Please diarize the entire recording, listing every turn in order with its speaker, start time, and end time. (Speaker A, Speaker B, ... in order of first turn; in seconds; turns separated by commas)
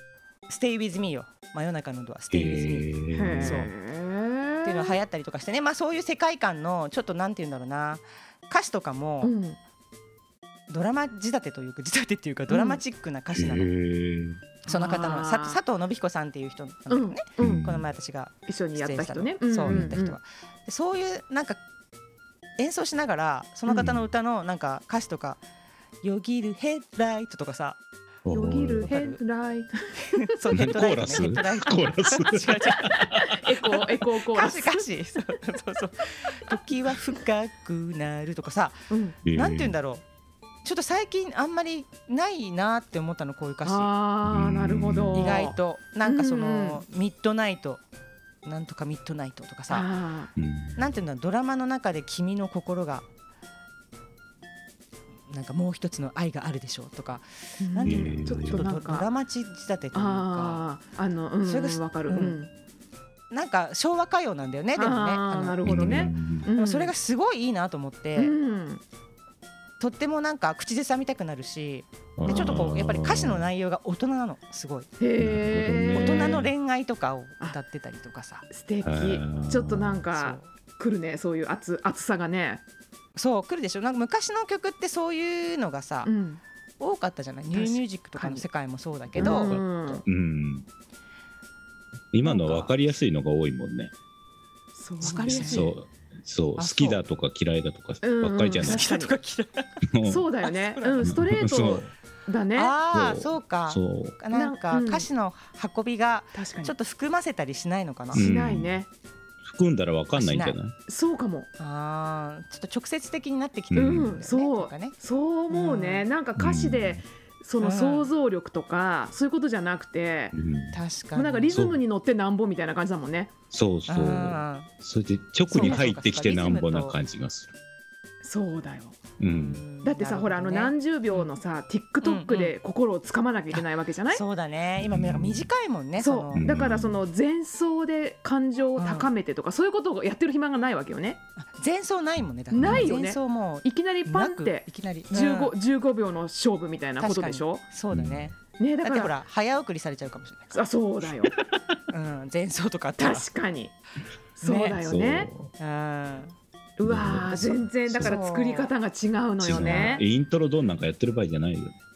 Speaker A: 0.5-3.7, Speaker B: 2.3-3.7, Speaker C: 3.1-5.0, Speaker A: 4.6-9.3, Speaker C: 9.2-9.6, Speaker A: 10.7-13.7, Speaker C: 12.5-12.8, Speaker B: 13.3-14.4, Speaker A: 14.7-21.6, Speaker C: 14.7-15.6, Speaker C: 16.9-17.7, Speaker B: 17.4-17.8, Speaker C: 18.4-20.2, Speaker B: 19.6-19.9, Speaker A: 22.6-25.4, Speaker B: 23.7-24.0, Speaker A: 26.0-27.8, Speaker B: 28.2-28.9, Speaker C: 28.3-30.3, Speaker A: 28.8-29.2, Speaker A: 30.4-33.0, Speaker B: 30.5-33.8, Speaker C: 33.0-34.8, Speaker A: 34.3-40.0, Speaker C: 38.9-39.2, Speaker B: 39.2-39.8, Speaker A: 40.6-43.9, Speaker C: 43.6-46.8, Speaker B: 44.2-45.3, Speaker A: 45.1-47.8, Speaker A: 48.4-49.9, Speaker C: 49.7-50.3, Speaker B: 50.4-50.8, Speaker A: 50.8-53.0, Speaker A: 55.3-60.6, Speaker C: 57.6-59.1, Speaker B: 57.8-58.6, Speaker C: 59.9-62.5, Speaker A: 61.4-62.4, Speaker A: 63.3-68.3, Speaker C: 64.7-66.9, Speaker B: 65.6-66.5, Speaker C: 68.2-68.8, Speaker A: 69.8-74.9, Speaker B: 72.2-73.5, Speaker C: 72.2-72.7, Speaker C: 75.0-76.4, Speaker B: 75.2-76.5, Speaker A: 75.9-78.5, Speaker C: 78.5-82.6, Speaker B: 78.8-80.0, Speaker A: 80.1-80.5, Speaker A: 83.1-86.1, Speaker C: 86.0-86.4, Speaker A: 86.8-89.5, Speaker C: 87.5-88.5, Speaker B: 89.1-90.7, Speaker C: 89.2-90.0, Speaker B: 92.1-93.9, Speaker C: 92.2-92.7, Speaker C: 94.7-95.7, Speaker A: 95.0-95.7, Speaker B: 95.2-98.8, Speaker A: 96.6-97.0, Speaker C: 98.0-99.1, Speaker A: 98.6-99.7, Speaker B: 99.9-100.2, Speaker C: 100.0-102.7, Speaker A: 100.4-101.2, Speaker B: 101.0-101.9, Speaker A: 102.5-108.2, Speaker B: 102.9-104.2, Speaker C: 104.3-105.1, Speaker C: 106.3-106.7, Speaker B: 108.1-108.8, Speaker C: 108.1-108.9, Speaker B: 109.4-110.7, Speaker A: 110.2-110.5, Speaker C: 110.9-111.5, Speaker A: 111.6-114.9, Speaker B: 113.7-114.1, Speaker C: 113.7-120.3, Speaker A: 115.5-116.1, Speaker B: 116.4-117.0, Speaker A: 117.6-118.1, Speaker B: 120.3-120.8, Speaker A: 120.7-121.5, Speaker C: 121.1-123.3, Speaker B: 121.5-121.8, Speaker B: 123.5-127.5, Speaker A: 123.9-124.7, Speaker A: 125.5-127.0, Speaker C: 125.6-125.9, Speaker C: 128.2-129.0, Speaker B: 129.2-129.6, Speaker A: 129.3-131.3, Speaker C: 129.8-134.2, Speaker A: 132.0-132.5, Speaker A: 133.5-136.5, Speaker B: 134.8-135.5, Speaker C: 136.0-141.2, Speaker B: 136.3-137.0, Speaker A: 138.8-139.1, Speaker A: 141.3-145.5, Speaker C: 142.5-147.6, Speaker B: 142.6-142.9, Speaker A: 147.0-150.6, Speaker B: 147.9-148.3, Speaker C: 148.6-149.2, Speaker C: 150.5-151.3, Speaker A: 151.9-153.3, Speaker C: 153.0-153.7, Speaker C: 154.3-155.3, Speaker A: 154.4-154.8, Speaker B: 154.8-155.5, Speaker A: 155.6-156.3, Speaker C: 156.8-160.0, Speaker B: 156.8-158.1, Speaker A: 158.0-158.7, Speaker B: 159.4-161.7, Speaker A: 159.6-160.0